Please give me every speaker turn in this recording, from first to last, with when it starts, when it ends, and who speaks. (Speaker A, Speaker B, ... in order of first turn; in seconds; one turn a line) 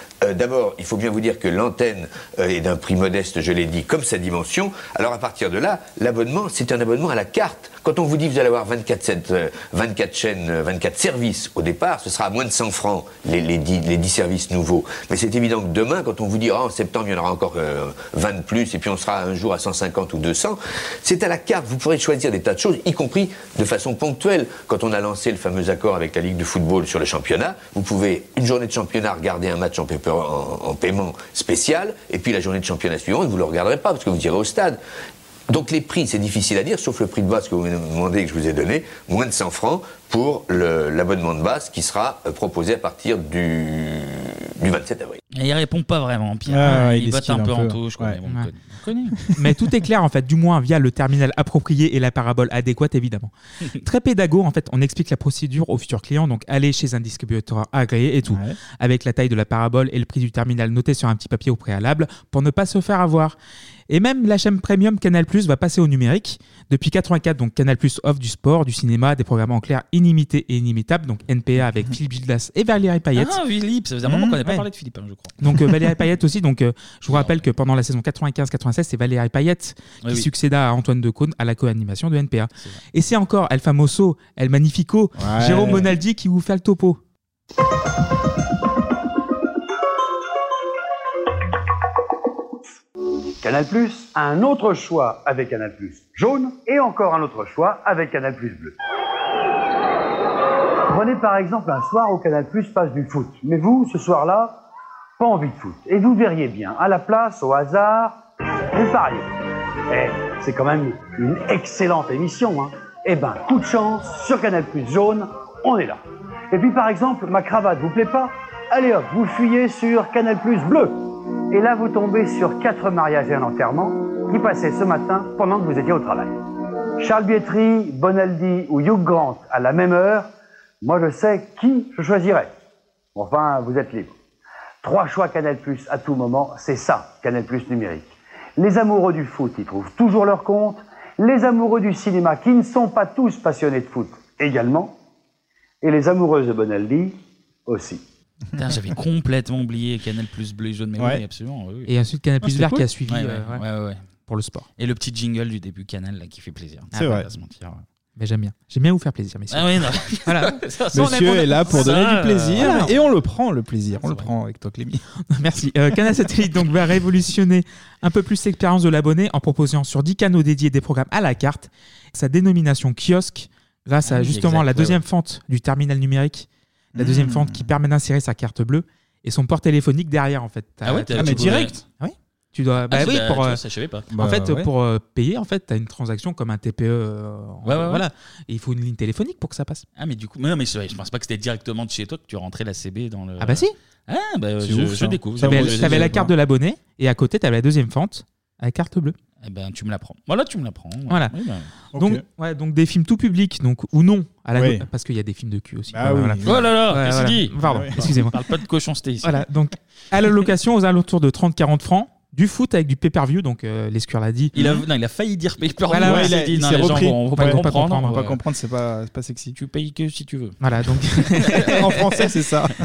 Speaker A: 0.2-34.8
Speaker A: 35.5-45.2
Speaker B: 45.3-49.1
Speaker C: 46.5-48.2
Speaker C: 49.2-49.5
Speaker D: 49.4-63.3
Speaker C: 58.2-58.6
Speaker D: 63.9-73.4
Speaker B: 73.1-75.4
Speaker C: 74.0-74.4
Speaker D: 75.4-87.0
Speaker B: 77.1-77.4
Speaker B: 80.0-80.3
Speaker C: 85.2-85.9
Speaker E: 93.4-98.8
Speaker E: 100.9-104.6
Speaker E: 105.2-108.2
Speaker E: 108.7-109.3
Speaker E: 109.9-126.4
Speaker E: 127.0-130.3
Speaker E: 130.8-132.5
Speaker E: 133.1-134.1
Speaker E: 134.8-144.9
Speaker E: 145.8-147.2
Speaker E: 147.7-148.0
Speaker B: 148.6-151.9
Speaker D: 151.9-153.6
Speaker B: 152.5-154.0
Speaker D: 154.3-154.7
Speaker B: 154.8-157.8
Speaker C: 156.9-157.3
Speaker D: 158.2-161.1
Speaker B: 159.5-162.9
Speaker C: 160.9-165.0
Speaker D: 162.6-162.9
Speaker B: 164.0-164.3
Speaker D: 165.3-183.6
Speaker B: 174.0-175.0
Speaker C: 176.9-177.7
Speaker B: 180.8-181.8
Speaker C: 181.1-181.8
Speaker B: 182.9-184.1
Speaker C: 184.1-184.7
Speaker D: 184.2-189.8
Speaker B: 187.6-188.1
Speaker B: 189.9-196.2
Speaker D: 193.4-193.7
Speaker C: 194.6-196.3
Speaker D: 195.4-199.1
Speaker B: 199.4-201.7
Speaker D: 201.1-201.3
Speaker C: 201.9-202.2
Speaker D: 202.0-208.3
Speaker C: 204.5-204.8
Speaker C: 205.9-206.6
Speaker B: 206.4-209.4
Speaker C: 207.6-208.0
Speaker D: 209.2-214.8
Speaker B: 214.5-218.4
Speaker D: 215.9-218.3
Speaker C: 215.9-219.6
Speaker B: 219.6-220.6
Speaker D: 220.6-221.8
Speaker B: 221.4-221.7
Speaker C: 221.6-222.7